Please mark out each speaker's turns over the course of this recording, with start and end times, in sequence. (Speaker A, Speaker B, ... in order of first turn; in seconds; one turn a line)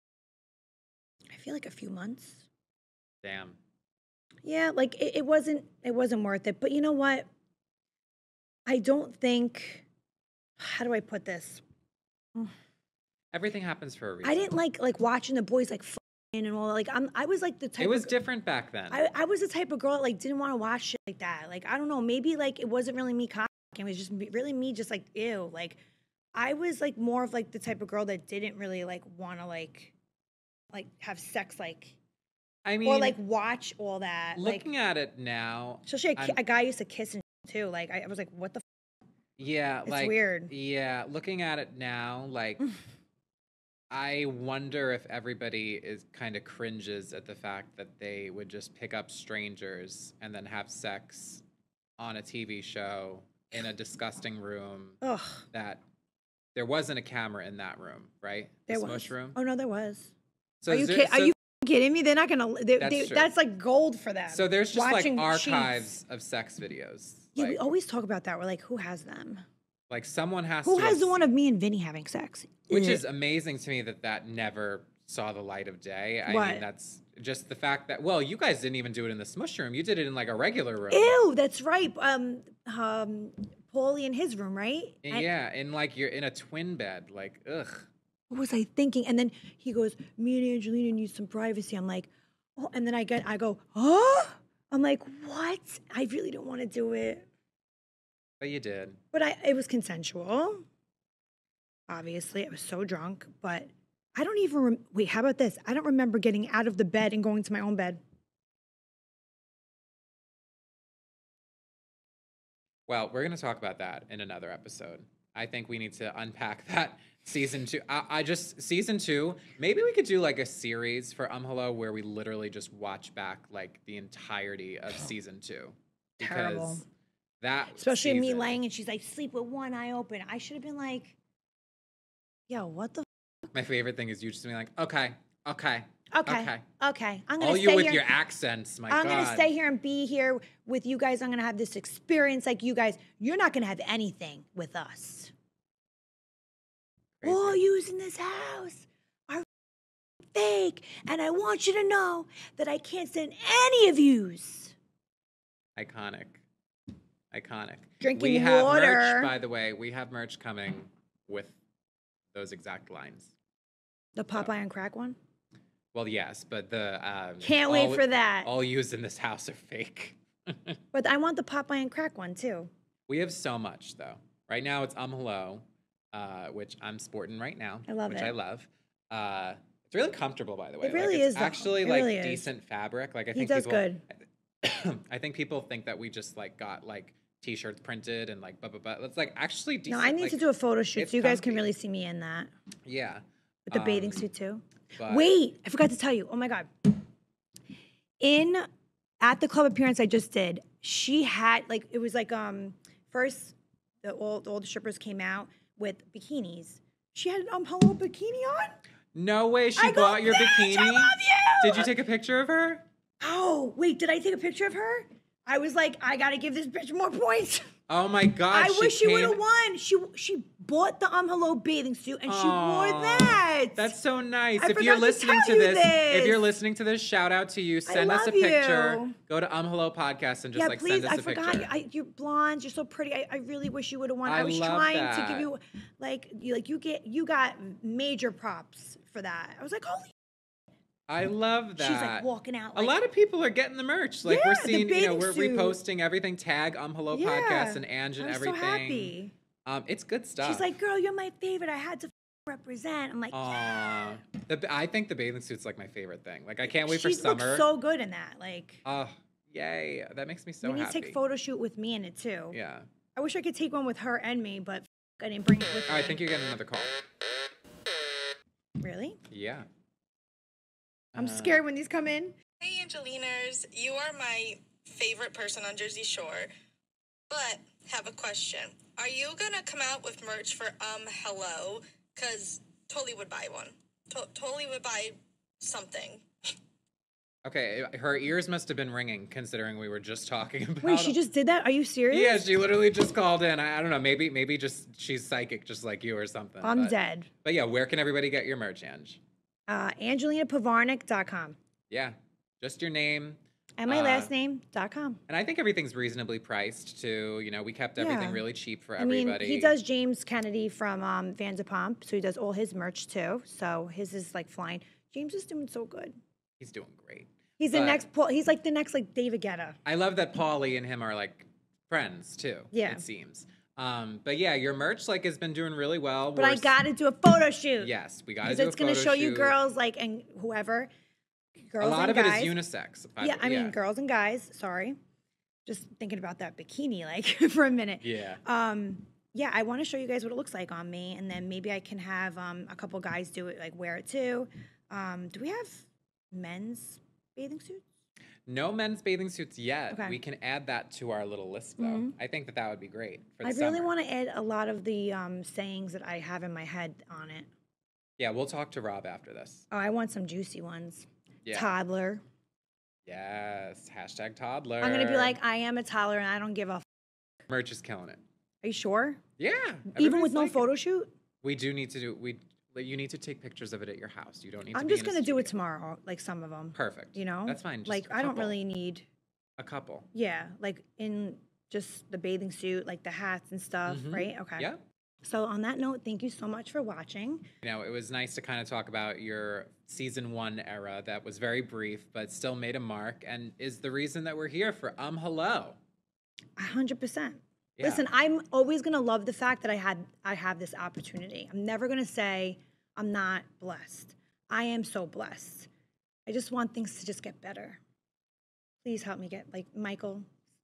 Speaker A: 1.3-2.5
Speaker B: 3.2-3.6
Speaker A: 4.4-7.3
Speaker A: 8.7-9.8
Speaker A: 10.6-11.6
Speaker B: 13.3-14.5
Speaker A: 14.2-18.1
Speaker B: 17.8-19.0
Speaker A: 18.9-25.8
Speaker A: 26.3-29.9
Speaker A: 30.7-31.9
Speaker B: 32.6-33.2
Speaker A: 32.8-34.7
Speaker B: 34.3-36.4
Speaker A: 35.9-38.6
Speaker B: 39.4-42.6
Speaker A: 39.9-40.5
Speaker B: 43.9-51.4
Speaker B: 52.0-55.0
Speaker A: 55.0-55.4
Speaker B: 55.5-55.8
Speaker B: 56.5-59.4
Speaker A: 58.7-60.1
Speaker B: 60.6-61.3
Speaker A: 60.7-65.9
Speaker B: 62.8-63.3
Speaker B: 64.3-67.7
Speaker A: 67.3-69.4
Speaker B: 69.9-71.2
Speaker A: 70.6-73.0
Speaker B: 72.7-81.1
Speaker A: 76.2-76.6
Speaker A: 80.9-85.3
Speaker B: 85.0-87.9
Speaker A: 88.3-97.3
Speaker B: 98.4-99.0
Speaker A: 99.1-100.6
Speaker A: 101.9-108.0
Speaker B: 112.9-126.8
Speaker A: 126.2-126.8
Speaker B: 127.4-128.6
Speaker A: 127.7-131.2
Speaker A: 132.5-133.5
Speaker B: 133.5-136.6
Speaker A: 136.1-138.1
Speaker B: 137.4-139.5
Speaker A: 138.9-145.3
Speaker B: 147.2-147.6
Speaker A: 147.2-149.4
Speaker A: 150.3-154.7
Speaker B: 155.8-156.4
Speaker B: 157.3-161.6
Speaker A: 158.0-159.3
Speaker B: 162.3-163.3
Speaker A: 164.2-165.2
Speaker B: 165.9-170.8
Speaker A: 167.4-168.5
Speaker A: 170.9-172.7
Speaker B: 173.1-184.0
Speaker A: 177.9-178.3
Speaker A: 180.8-182.5
Speaker A: 183.3-184.0
Speaker B: 184.6-190.4
Speaker A: 189.9-192.5
Speaker B: 190.9-191.7
Speaker B: 192.8-194.3
Speaker A: 193.7-197.0
Speaker B: 194.9-195.3
Speaker A: 198.2-198.7
Speaker A: 199.2-208.8
Speaker B: 209.1-212.8
Speaker A: 209.8-211.9
Speaker A: 213.2-217.7
Speaker B: 217.9-219.4
Speaker A: 218.5-223.9
Speaker B: 222.3-231.7
Speaker A: 224.6-226.4
Speaker A: 227.9-229.2
Speaker A: 230.5-240.1
Speaker B: 234.2-235.5
Speaker B: 241.1-250.7
Speaker A: 241.8-243.0
Speaker A: 244.2-245.8
Speaker A: 247.1-249.3
Speaker A: 250.4-254.0
Speaker B: 253.3-257.7
Speaker A: 256.6-258.8
Speaker B: 258.8-261.2
Speaker A: 260.6-262.6
Speaker B: 262.5-262.9
Speaker A: 263.1-266.2
Speaker B: 265.9-267.0
Speaker A: 268.8-269.2
Speaker B: 269.3-269.7
Speaker B: 271.1-271.6
Speaker A: 271.1-272.3
Speaker C: 272.6-276.5
Speaker C: 277.3-286.2
Speaker B: 287.4-291.2
Speaker A: 290.8-292.4
Speaker B: 292.1-299.2
Speaker A: 296.6-297.3
Speaker A: 299.7-301.6
Speaker B: 301.9-304.3
Speaker A: 303.8-305.2
Speaker B: 305.3-309.8
Speaker A: 308.0-308.4
Speaker A: 309.0-316.1
Speaker B: 316.6-318.0
Speaker A: 317.6-319.8
Speaker B: 319.8-326.7
Speaker A: 322.7-323.0
Speaker A: 326.4-330.9
Speaker B: 327.8-329.6
Speaker A: 331.6-332.6
Speaker B: 331.8-333.8
Speaker A: 333.2-335.0
Speaker A: 335.6-347.9
Speaker B: 338.0-338.4
Speaker B: 348.4-353.9
Speaker A: 349.9-350.2
Speaker A: 351.8-352.1
Speaker A: 353.4-357.5
Speaker B: 358.2-359.6
Speaker A: 359.7-362.2
Speaker B: 363.1-365.4
Speaker A: 364.8-366.9
Speaker B: 367.5-368.2
Speaker A: 368.6-369.2
Speaker B: 369.4-370.7
Speaker A: 369.9-371.1
Speaker B: 371.4-375.5
Speaker A: 374.7-379.0
Speaker B: 376.7-378.6
Speaker B: 379.6-380.1
Speaker A: 380.1-384.7
Speaker B: 383.9-384.8
Speaker A: 385.2-387.5
Speaker B: 387.6-395.8
Speaker A: 396.6-405.7
Speaker B: 397.8-398.1
Speaker A: 406.2-407.8
Speaker A: 408.8-410.3